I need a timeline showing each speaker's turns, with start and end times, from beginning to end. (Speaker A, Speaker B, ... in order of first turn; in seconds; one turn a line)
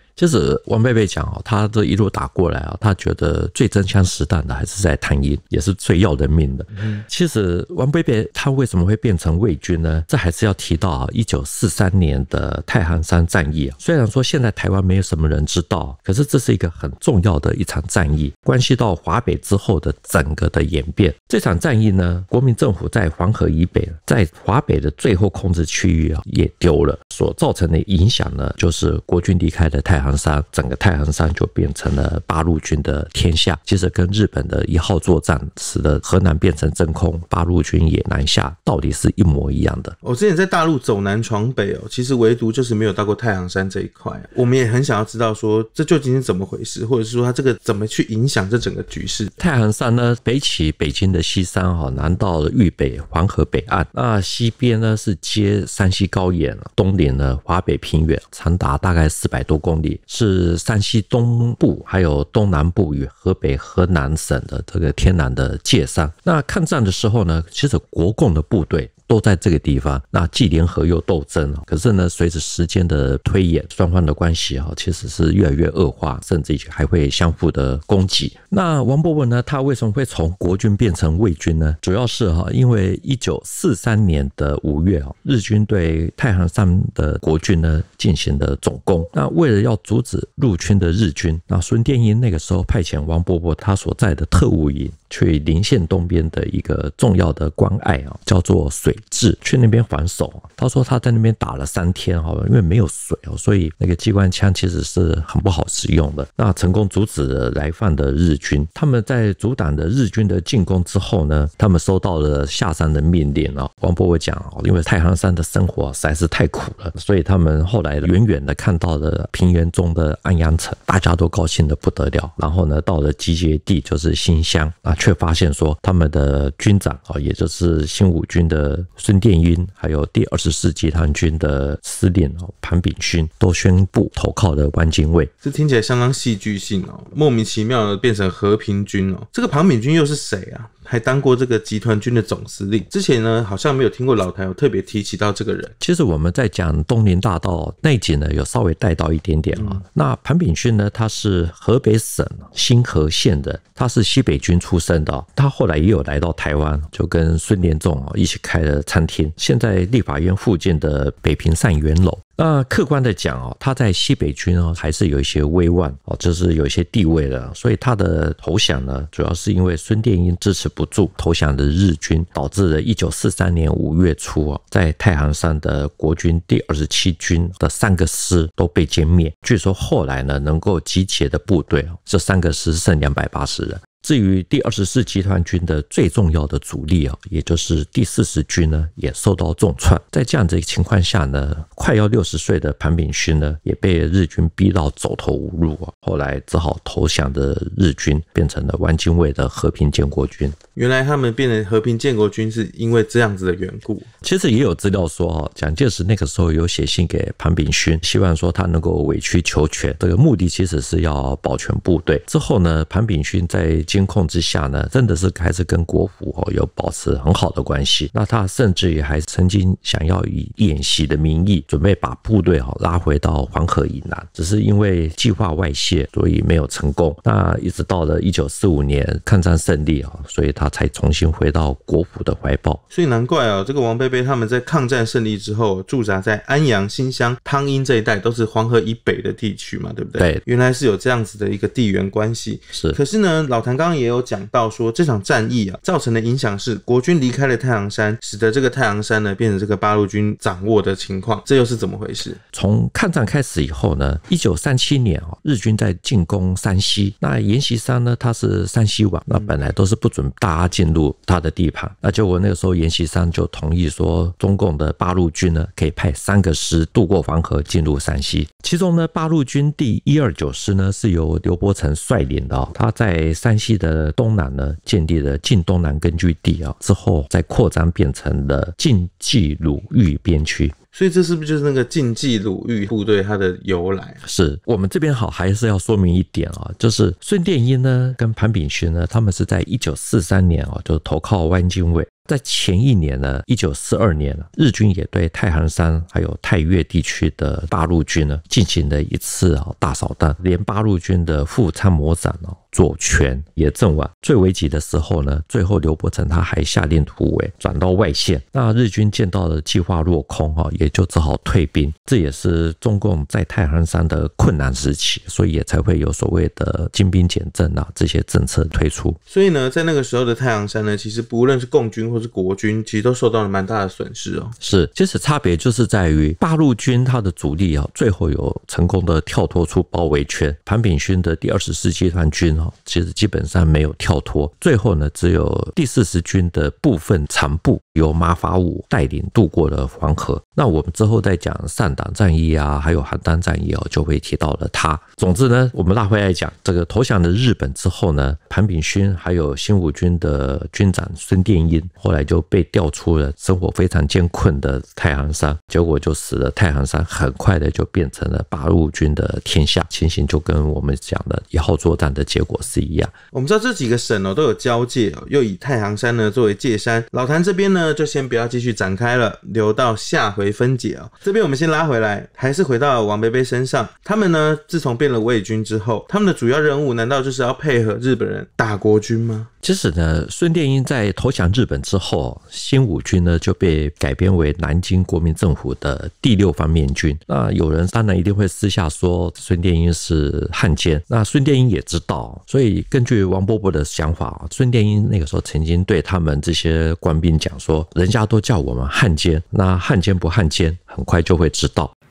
Speaker A: 0.2-40.0
Speaker B: 6.8-7.0
Speaker B: 40.0-49.3
Speaker A: 49.4-135.3
Speaker B: 135.4-145.7
Speaker A: 145.8-200.6
Speaker B: 200.8-204.1
Speaker A: 204.2-232.8
Speaker B: 232.9-252.4
Speaker A: 242.7-243.0
Speaker A: 252.5-280.8
Speaker B: 280.9-284.2
Speaker A: 284.2-319.2
Speaker B: 319.3-324.6
Speaker A: 324.6-363.1
Speaker B: 363.3-379.5
Speaker A: 379.6-401.9